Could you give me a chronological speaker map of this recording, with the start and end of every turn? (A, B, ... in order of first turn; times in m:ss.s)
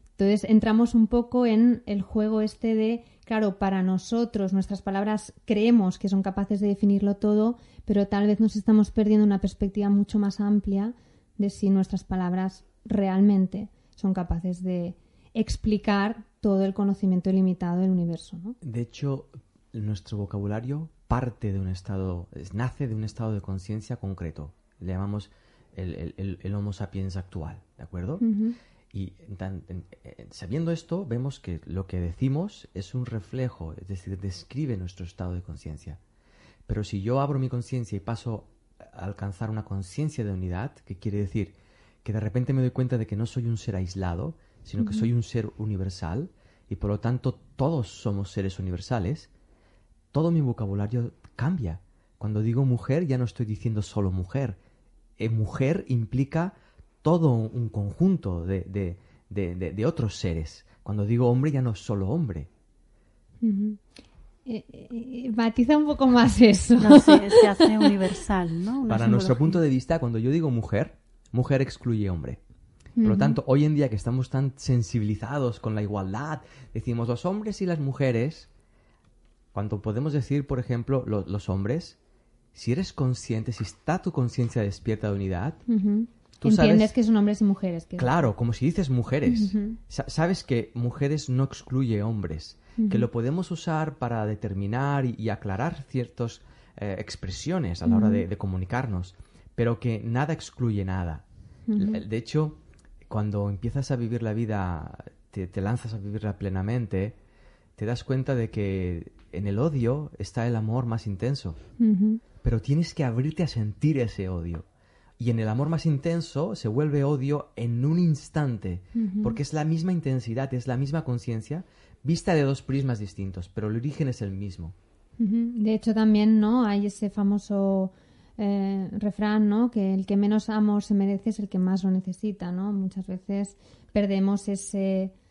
0:00.2-0:18.6 A
0:18.6-0:28.2 B
0:28.2-0:28.6 A
0:28.9-0:36.0 B
0:36.7-0:49.3 B
0:44.8-0:45.1 A
0:50.1-0:54.6 B
0:55.2-1:02.5 B
1:03.4-1:03.8 A
1:04.5-1:07.9 A
1:06.8-1:09.6 C
1:08.9-1:12.4 B
1:13.0-1:13.4 A
1:13.0-1:18.5 B
1:19.5-1:22.0 B
1:22.5-1:25.6 B
1:25.7-1:28.1 A
1:26.4-1:26.9 B
1:28.0-1:41.2 B
1:29.3-1:29.8 A
1:32.8-1:33.1 A
1:37.8-1:38.2 A
1:41.7-1:42.0 A
1:41.8-1:47.2 B
1:47.8-1:51.6 B
1:51.8-1:52.2 A
1:52.4-1:54.7 B
1:55.2-2:04.8 B
1:59.0-1:59.4 A
2:05.2-2:15.1 A